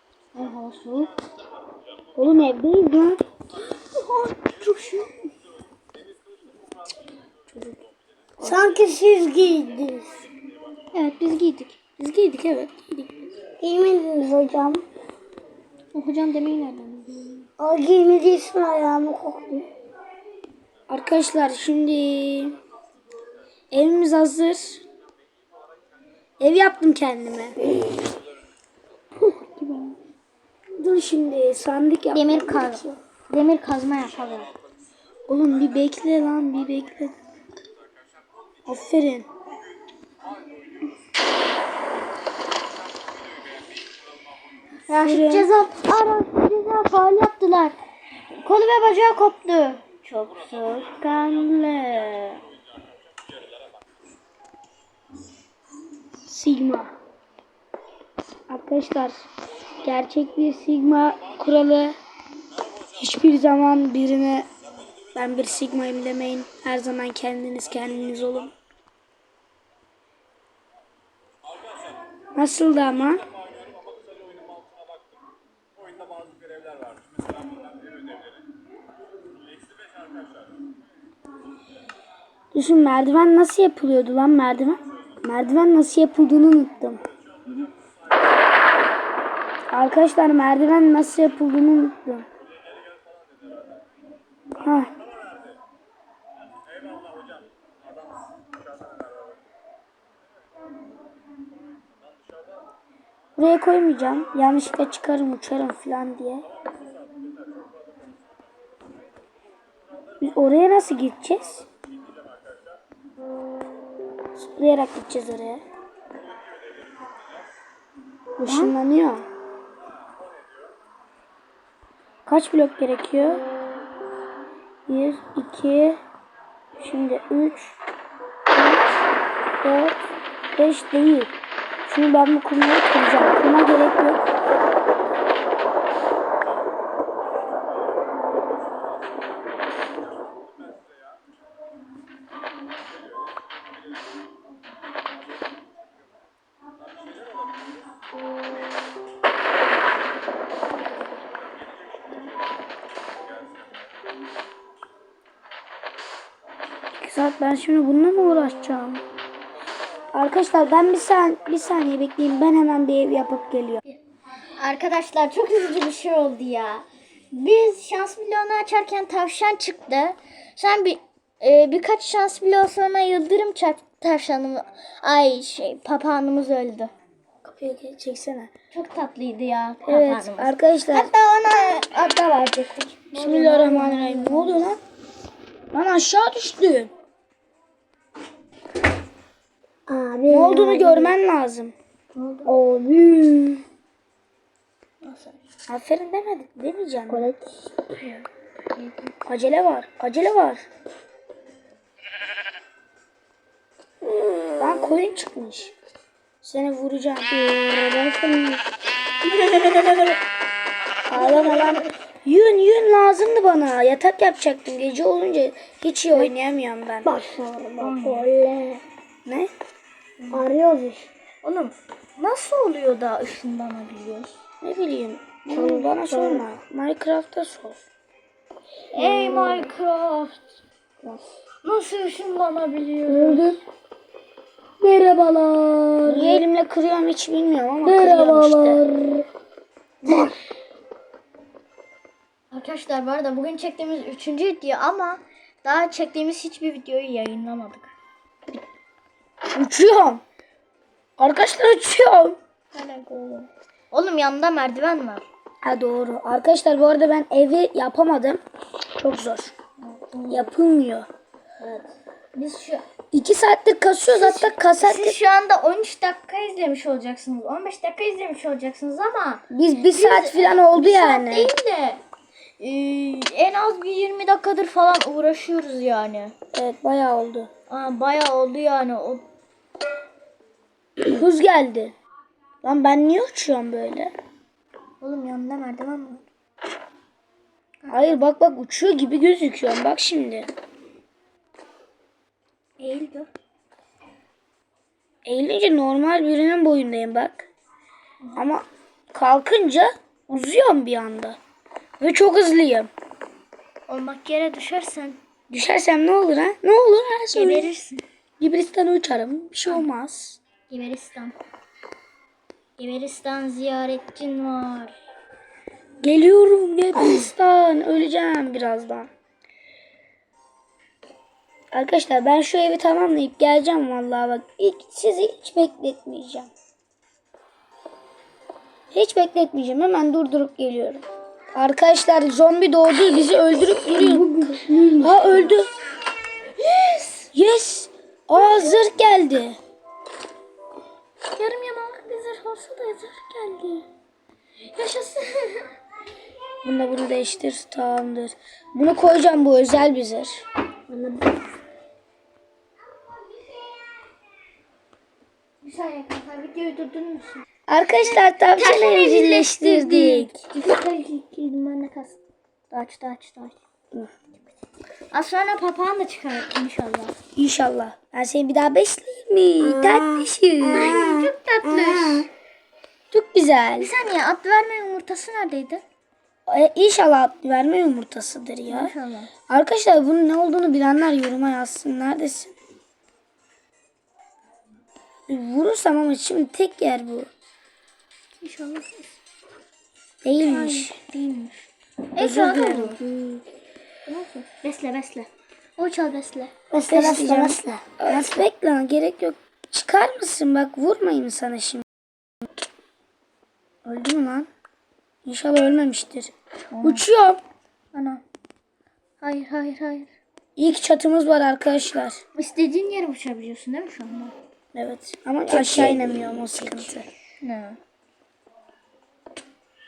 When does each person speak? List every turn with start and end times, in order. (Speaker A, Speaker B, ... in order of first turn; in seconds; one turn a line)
Speaker A: 0.3-1.1
Speaker B: 2.1-3.2
Speaker A: 3.9-5.1
Speaker B: 7.5-7.8
Speaker C: 8.4-10.2
Speaker A: 10.9-11.8
Speaker B: 12.0-13.3
Speaker C: 13.6-14.8
Speaker A: 15.9-17.4
Speaker C: 17.6-19.6
Speaker B: 20.9-22.6
Speaker B: 23.7-24.8
Speaker B: 26.4-27.6
Speaker A: 29.2-30.0
Speaker B: 30.8-33.0
Speaker A: 32.1-34.5
Speaker B: 35.3-37.1
Speaker B: 38.6-39.3
Speaker A: 44.9-47.8
Speaker B: 44.9-45.5
Speaker A: 48.4-52.4
Speaker B: 56.3-56.9
Speaker B: 58.5-59.2
Speaker B: 59.8-61.9
Speaker B: 62.9-64.5
Speaker B: 65.1-68.5
Speaker B: 72.3-73.2
Speaker B: 82.5-87.0
Speaker B: 89.7-92.2
Speaker B: 94.6-94.9
Speaker B: 103.4-106.5
Speaker B: 110.2-111.7
Speaker B: 114.3-115.6
Speaker B: 118.4-119.2
Speaker A: 118.4-118.7
Speaker B: 122.2-123.4
Speaker B: 124.9-126.0
Speaker B: 126.8-127.7
Speaker B: 129.6-130.0
Speaker B: 130.5-131.3
Speaker B: 131.9-134.2
Speaker B: 157.0-159.0
Speaker B: 160.1-163.8
Speaker A: 164.6-176.9
Speaker B: 177.4-178.5
Speaker A: 178.7-184.7
Speaker B: 179.8-181.1
Speaker B: 183.1-184.8
Speaker B: 185.7-186.9
Speaker C: 189.9-191.1
Speaker B: 190.3-191.7
Speaker A: 192.2-192.5
Speaker C: 192.7-193.6
Speaker A: 195.0-195.3
Speaker B: 195.7-197.3
Speaker C: 197.1-197.6
Speaker A: 198.0-199.1
Speaker B: 199.2-200.6
Speaker C: 204.3-204.5
Speaker B: 204.6-205.7
Speaker B: 206.4-207.4
Speaker C: 207.4-208.6
Speaker B: 209.4-210.0
Speaker B: 211.1-217.1
Speaker C: 217.0-218.8
Speaker A: 217.8-218.3
Speaker B: 219.2-219.5
Speaker A: 220.2-220.5
Speaker C: 220.3-221.1
Speaker A: 221.4-224.3
Speaker B: 224.6-227.8
Speaker C: 225.5-226.4
Speaker A: 228.9-230.4
Speaker C: 229.0-229.4
Speaker A: 231.6-233.6
Speaker C: 233.1-233.4
Speaker C: 234.8-235.2
Speaker B: 236.1-238.8
Speaker A: 237.9-238.2
Speaker C: 238.2-238.8
Speaker A: 242.5-247.9
Speaker B: 249.6-250.2
Speaker B: 251.2-252.4
Speaker A: 252.7-255.2
Speaker B: 255.6-258.4
Speaker B: 259.0-259.5
Speaker A: 259.8-260.5
Speaker B: 260.3-261.1
Speaker A: 261.6-262.8
Speaker B: 263.1-265.2
Speaker A: 264.1-272.0
Speaker B: 269.5-271.5
Speaker A: 272.6-276.3
Speaker B: 276.5-277.5
Speaker A: 277.7-279.2
Speaker B: 281.0-281.9
Speaker B: 282.6-284.1
Speaker A: 285.0-286.2
Speaker B: 287.9-290.5
Speaker A: 292.8-293.3
Speaker B: 295.2-297.5
Speaker B: 298.4-301.4
Speaker B: 302.0-302.9
Speaker A: 303.9-305.2
Speaker B: 305.5-307.7
Speaker A: 307.3-308.0
Speaker B: 308.4-310.4
Speaker A: 310.7-311.4
Speaker A: 312.8-314.9
Speaker B: 316.0-319.1
Speaker B: 321.7-326.5
Speaker B: 328.9-335.7
Speaker C: 334.1-335.2
Speaker A: 336.6-337.3
Speaker B: 337.3-339.6
Speaker A: 338.4-338.8
Speaker A: 341.3-343.9
Speaker A: 344.7-345.7
Speaker B: 346.6-350.4
Speaker C: 350.9-351.4
Speaker A: 355.6-357.4
Speaker B: 357.7-360.4
Speaker A: 358.0-362.2
Speaker A: 362.7-363.6
Speaker A: 365.1-367.1
Speaker B: 367.4-371.0
Speaker C: 369.6-372.3
Speaker A: 370.6-372.3
Speaker B: 373.1-373.9
Speaker A: 373.8-375.8
Speaker B: 376.5-378.9
Speaker A: 378.7-379.3
Speaker B: 379.5-382.5
Speaker B: 385.3-387.3
Speaker A: 388.4-389.2
Speaker B: 390.2-390.9
Speaker A: 390.4-393.0
Speaker B: 392.2-393.0
Speaker C: 393.0-393.4
Speaker A: 394.1-396.5
Speaker C: 396.7-398.0
Speaker B: 396.9-401.8
Speaker B: 403.8-404.5
Speaker B: 405.2-407.4
Speaker A: 406.7-407.0
Speaker A: 407.9-408.2
Speaker A: 409.2-410.1
Speaker B: 410.6-412.2
Speaker A: 412.3-414.3
Speaker B: 414.7-417.1
Speaker C: 415.5-416.5
Speaker A: 417.4-417.8